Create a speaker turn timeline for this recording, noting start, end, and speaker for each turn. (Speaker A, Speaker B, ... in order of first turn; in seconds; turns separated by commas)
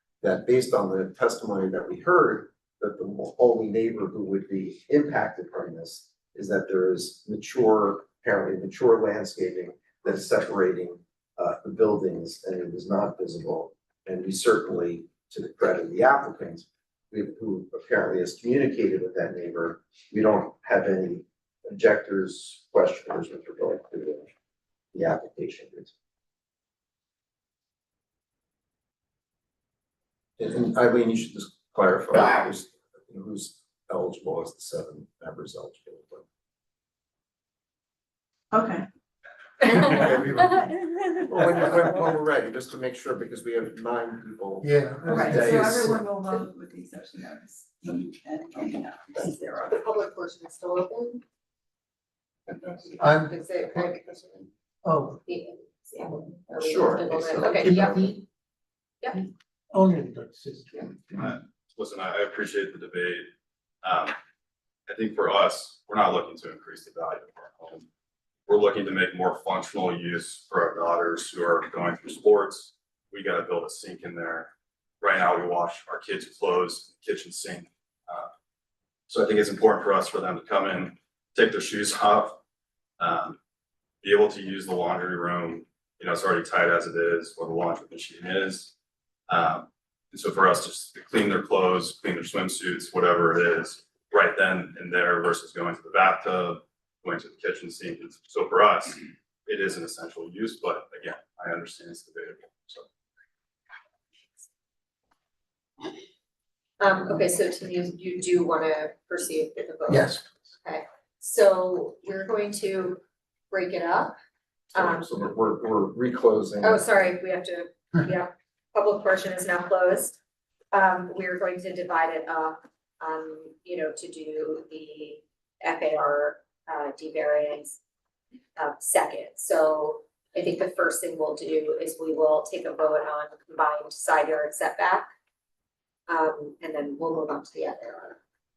Speaker A: 0.2-24.3, Speaker A: 24.9-25.9, Speaker A: 30.4-36.2, Speaker B: 38.5-38.9, Speaker C: 39.7-40.5, Speaker A: 39.8-40.5, Speaker B: 40.8-41.2, Speaker A: 41.3-45.8, Speaker C: 41.3-42.0, Speaker C: 44.6-46.0, Speaker B: 45.1-49.7, Speaker D: 49.5-51.2, Speaker D: 52.7-54.5, Speaker C: 53.0-53.9, Speaker C: 54.9-55.2, Speaker D: 55.2-58.1, Speaker A: 56.5-57.9, Speaker C: 57.6-58.2, Speaker C: 59.2-60.9, Speaker E: 61.2-63.3, Speaker E: 63.8-64.2, Speaker E: 64.9-67.9, Speaker E: 68.5-78.3, Speaker E: 79.1-82.4, Speaker E: 83.0-83.4, Speaker E: 84.0-88.7, Speaker E: 89.3-102.9, Speaker D: 106.8-113.0, Speaker C: 109.9-110.2, Speaker D: 113.5-114.2, Speaker A: 114.7-116.8, Speaker D: 114.8-115.1, Speaker D: 116.6-120.2, Speaker D: 120.7-127.8, Speaker D: 128.6-135.1, Speaker D: 136.1-138.2